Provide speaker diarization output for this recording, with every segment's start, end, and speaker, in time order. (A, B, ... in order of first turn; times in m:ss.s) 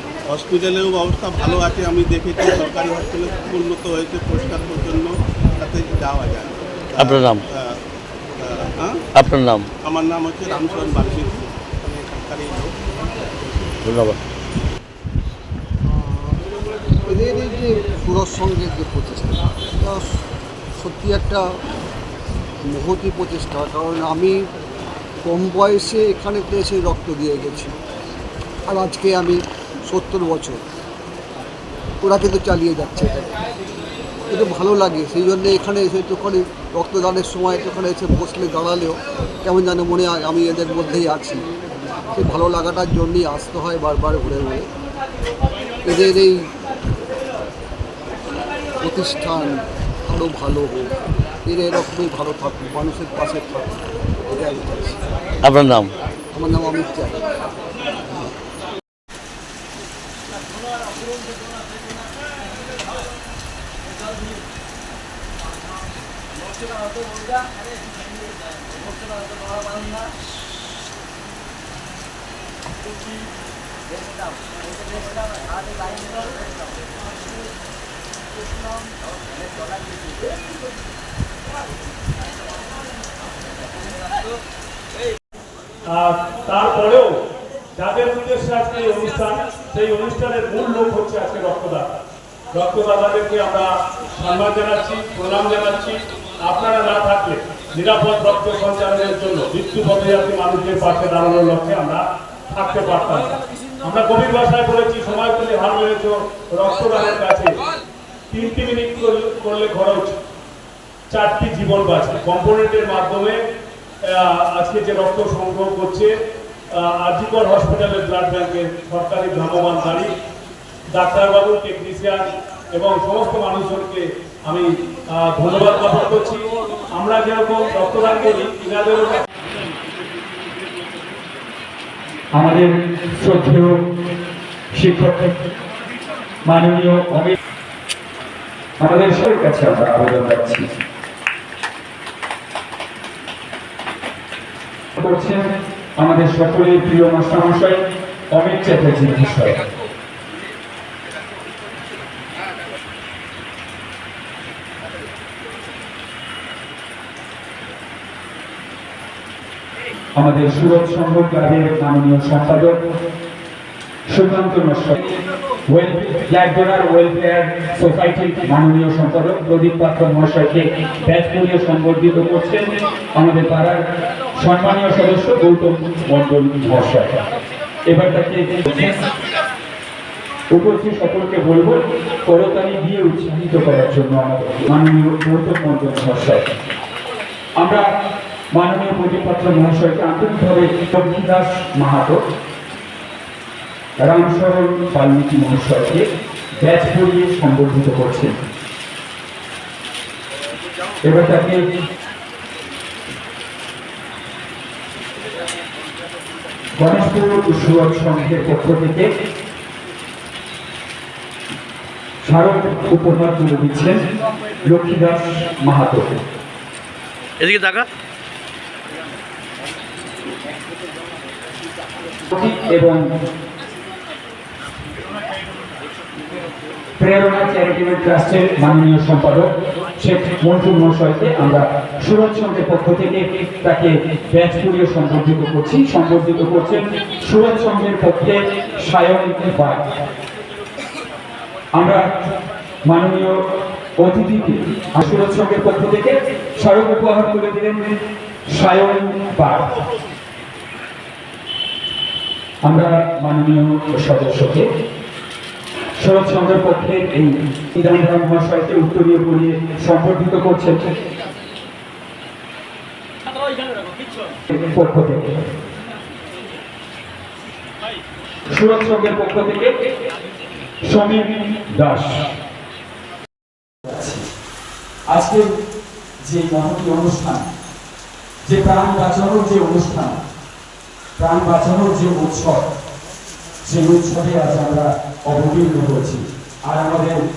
0:00.3-0:07.7 A
0:07.0-0:07.4 B
0:08.4-0:09.0 A
0:09.1-0:09.7 B
0:09.8-0:12.8 A
0:13.8-0:14.2 B
0:15.9-0:16.4 C
0:17.1-0:20.0 C
0:20.8-0:21.4 C
0:22.7-0:24.4 C
0:25.2-0:27.7 C
0:28.7-0:30.6 C
0:32.0-0:33.3 C
0:34.3-0:41.4 C
0:42.1-0:44.6 C
0:45.8-0:46.4 C
0:48.8-0:50.9 C
0:51.4-0:55.0 C
0:55.4-0:55.9 B
0:56.3-0:57.3 C
0:57.9-0:58.3 C
1:26.0-1:27.1 D
1:27.8-1:31.9 D
1:32.5-1:47.5 D
1:48.3-1:50.2 D
1:51.1-1:53.4 D
1:54.2-1:56.1 D
1:57.0-2:00.1 D
2:00.9-2:04.7 D
2:05.2-2:06.4 D
2:07.0-2:09.2 D
2:12.3-2:13.8 E
2:14.7-2:15.4 E
2:16.4-2:17.3 E
2:18.8-2:20.7 E
2:25.0-2:27.8 E
2:28.3-2:29.6 E
2:40.2-2:42.8 E
2:44.1-2:45.1 E
2:45.7-2:53.8 E
2:54.4-2:57.3 E
2:57.9-2:59.0 E
3:00.5-3:06.4 E
3:07.6-3:07.9 E
3:08.5-3:12.2 E
3:14.0-3:16.0 E
3:16.6-3:18.4 E
3:21.0-3:21.6 E
3:26.8-3:29.1 E
3:32.2-3:34.0 E
3:34.6-3:36.2 E
3:37.4-3:37.9 B
3:42.3-3:43.0 E
3:47.0-3:59.8 E
4:01.8-4:02.0 E
4:02.9-4:03.4 E
4:04.0-4:07.9 E
4:08.5-4:09.7 E
4:12.6-4:14.6 E
4:16.0-4:20.9 E
4:24.5-4:25.4 E
4:28.5-4:29.7 E
4:30.8-4:32.3 E
4:33.9-4:34.2 E
4:35.1-4:35.4 E
4:36.2-4:37.4 E
4:38.5-4:40.2 E
4:41.2-4:42.6 E
4:43.6-4:47.2 E